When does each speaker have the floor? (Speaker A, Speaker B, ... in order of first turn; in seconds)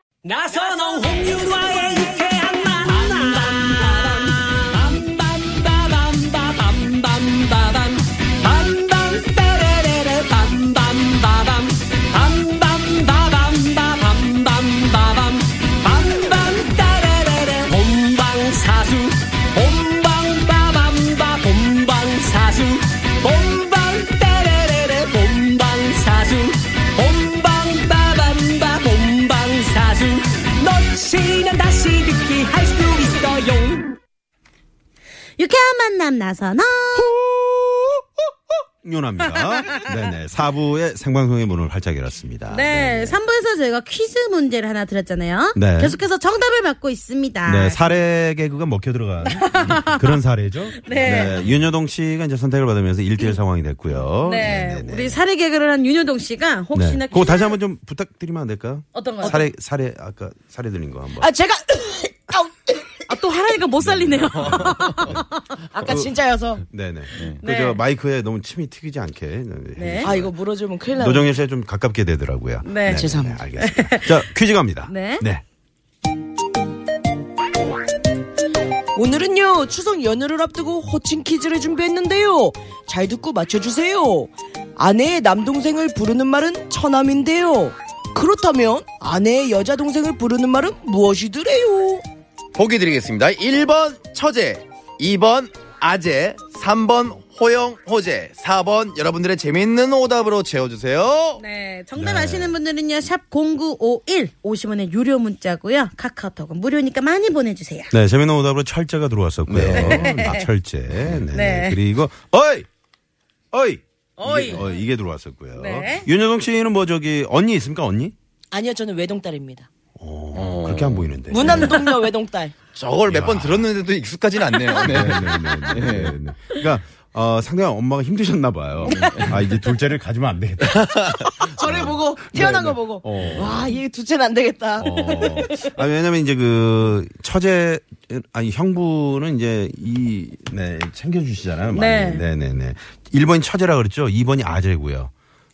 Speaker A: 0.2-34.0
Speaker B: 35.4-37.1, 39.2-39.9, 42.5-47.8, 49.3-50.0, 50.8-51.5, 54.2-57.6, 58.9-59.4, 63.1-65.3, 67.4-67.8, 69.8-70.1, 72.6-74.2, 74.8-75.3, 101.4-107.9, 109.7-110.5, 111.3-111.8, 114.2-114.8, 115.6-116.1, 141.7-142.2
Speaker C: 37.0-38.0, 38.8-43.2, 45.5-46.0, 47.5-55.2, 56.7-61.3, 63.8-65.3, 65.8-66.1, 66.7-70.3, 71.0-75.4, 102.0-102.6, 107.9-112.7, 113.5-118.2, 120.0-121.8, 123.0-123.7, 124.8-133.8, 134.8-145.1
Speaker D: 61.2-62.9, 65.7-66.7, 70.0-71.3, 72.9-73.4, 79.0-92.0, 118.5-119.7, 121.3-122.6, 131.4-135.6
Speaker E: 64.5-65.0, 92.5-101.4, 109.5-110.3, 120.3-121.8, 122.7-126.2, 128.9-129.3, 130.7-131.3